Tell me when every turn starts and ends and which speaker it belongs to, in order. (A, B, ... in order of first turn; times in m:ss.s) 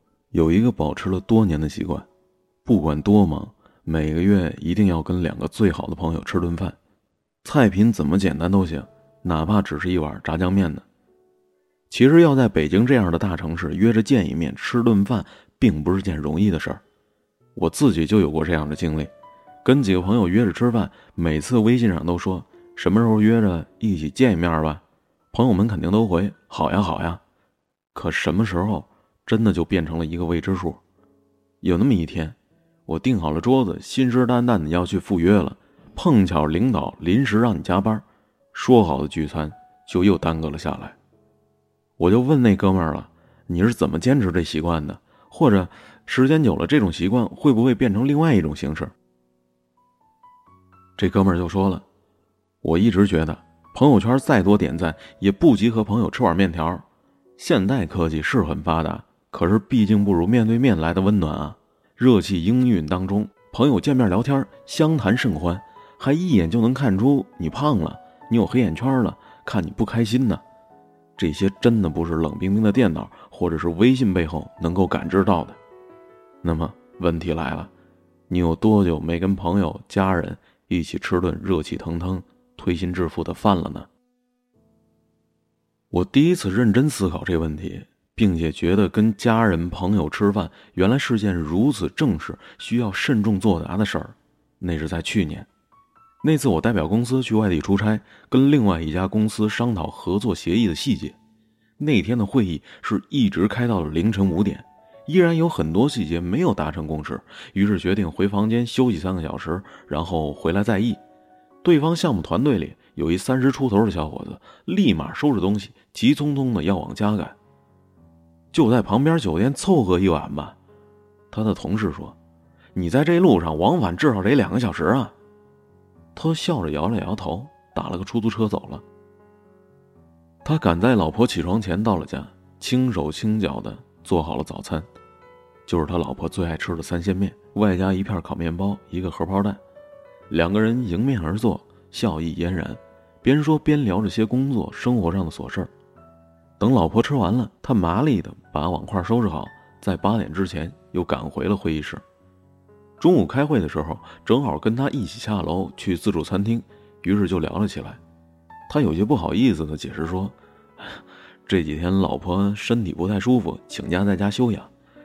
0:00.3-0:02.1 A
0:02.6-0:06.8 A
0:07.4-0:10.8 A
0:11.9-0:16.8 A
0:17.5-0:19.1 A
0:19.6-0:27.2 A
0:27.9-0:30.8 A
0:31.6-0:41.0 A
0:42.0-0:48.9 A
0:51.0-0:51.8 A
0:52.6-0:56.8 A
0:57.4-1:10.4 A
1:11.2-1:15.6 A
1:16.4-1:17.7 A
1:18.3-1:23.9 A
1:25.9-1:35.5 A
1:36.2-1:41.2 A
1:41.8-1:51.0 A
1:51.6-1:57.4 A
1:58.5-2:00.6 A
2:01.3-2:02.2 A
2:02.7-2:05.1 A
2:06.1-2:08.8 A
2:10.4-2:14.9 A
2:15.7-2:19.6 A
2:20.3-2:25.7 A
2:26.6-2:32.0 A
2:33.0-2:38.0 A
2:38.7-2:44.7 A